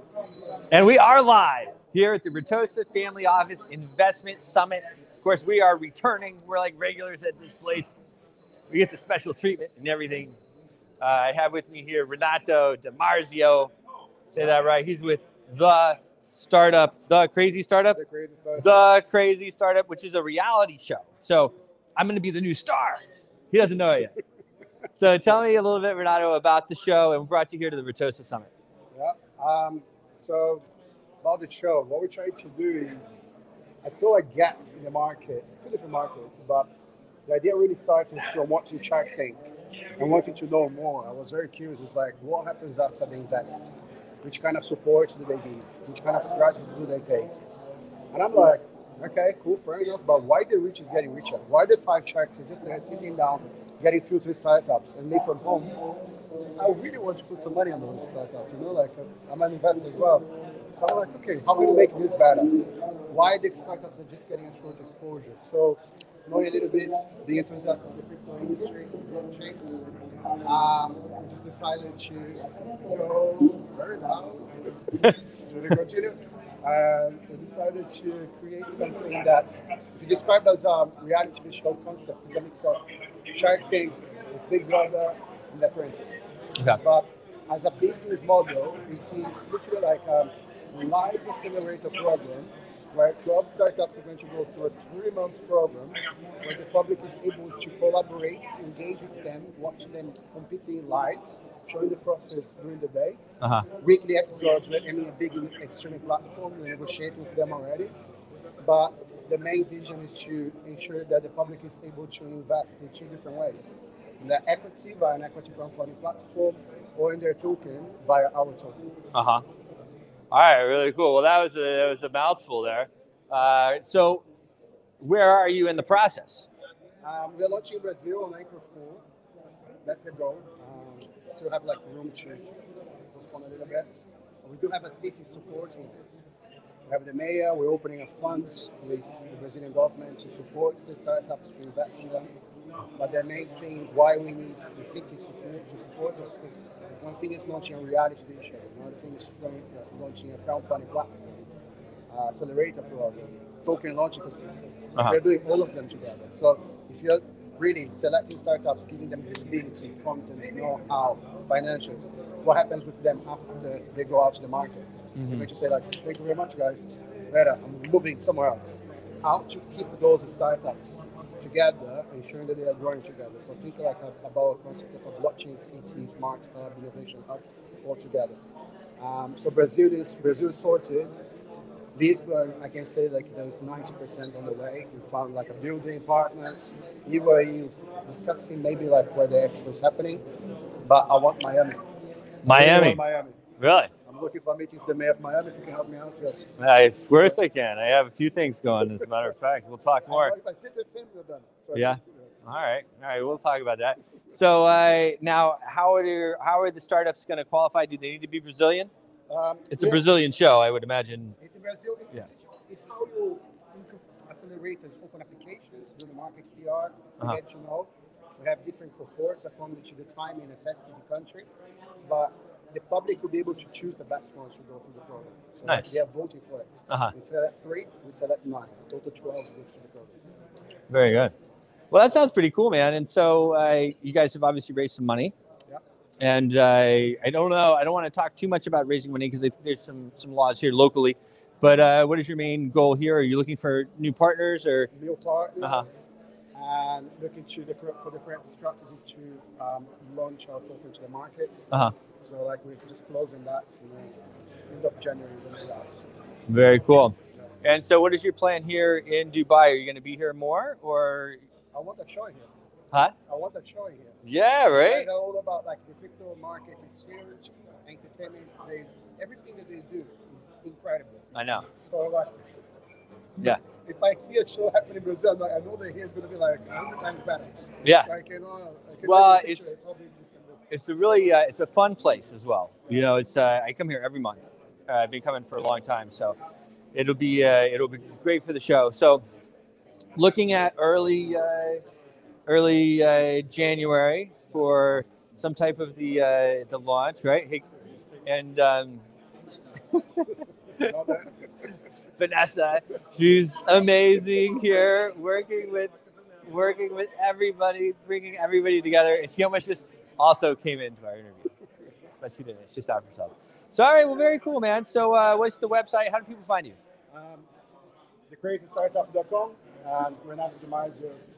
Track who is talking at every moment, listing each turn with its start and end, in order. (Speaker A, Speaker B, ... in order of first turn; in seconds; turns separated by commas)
Speaker A: 0.7-8.0, Speaker A: 8.7-10.4, Speaker A: 11.0-13.7, Speaker A: 14.3-18.0, Speaker B: 17.9-18.9, Speaker A: 18.6-24.1, Speaker A: 24.9-28.5, Speaker B: 28.9-30.6, Speaker B: 31.2-36.7, Speaker B: 37.3-39.5, Speaker B: 40.0-43.7, Speaker B: 44.2-47.4, Speaker B: 48.1-55.8, Speaker B: 56.6-69.8, Speaker B: 70.3-74.5, Speaker B: 75.5-82.8, Speaker B: 83.3-103.2, Speaker A: 103.4-103.7, Speaker B: 103.7-107.9, Speaker B: 108.6-118.8, Speaker A: 119.1-119.4, Speaker A: 120.3-124.2, Speaker A: 125.0-126.5, Speaker B: 127.0-129.0, Speaker B: 129.8-132.5, Speaker B: 133.1-136.2, Speaker B: 136.9-142.3, Speaker B: 143.0-151.4, Speaker B: 152.1-178.4, Speaker A: 165.2-165.5, Speaker B: 179.0-181.2, Speaker B: 182.0-190.2, Speaker B: 190.9-191.8, Speaker A: 192.4-193.0, Speaker B: 192.5-193.4, Speaker A: 193.6-193.9, Speaker B: 194.1-196.5, Speaker A: 196.6-200.3, Speaker B: 200.0-202.3, Speaker A: 201.7-208.9, Speaker B: 209.3-210.1, Speaker A: 209.7-211.3, Speaker B: 211.4-221.5, Speaker B: 222.1-230.2, Speaker A: 225.7-226.0, Speaker A: 230.9-231.3, Speaker A: 231.9-235.3, Speaker A: 236.2-244.9, Speaker B: 244.9-251.7, Speaker A: 245.6-245.9, Speaker B: 252.2-254.2, Speaker B: 254.7-256.1, Speaker A: 256.5-261.4, Speaker B: 261.7-262.5, Speaker B: 263.3-264.2, Speaker A: 264.2-265.1, Speaker B: 264.7-272.3, Speaker A: 271.4-271.6, Speaker B: 273.4-280.6, Speaker A: 277.8-278.1, Speaker A: 279.1-279.7, Speaker A: 280.7-286.4, Speaker A: 286.9-289.2, Speaker A: 290.2-291.8, Speaker A: 292.5-297.6, Speaker A: 298.2-299.0, Speaker A: 299.9-300.3, Speaker B: 300.8-301.4, Speaker A: 302.2-305.9, Speaker A: 306.4-311.5, Speaker A: 312.2-316.8, Speaker B: 317.1-317.5, Speaker B: 318.3-321.2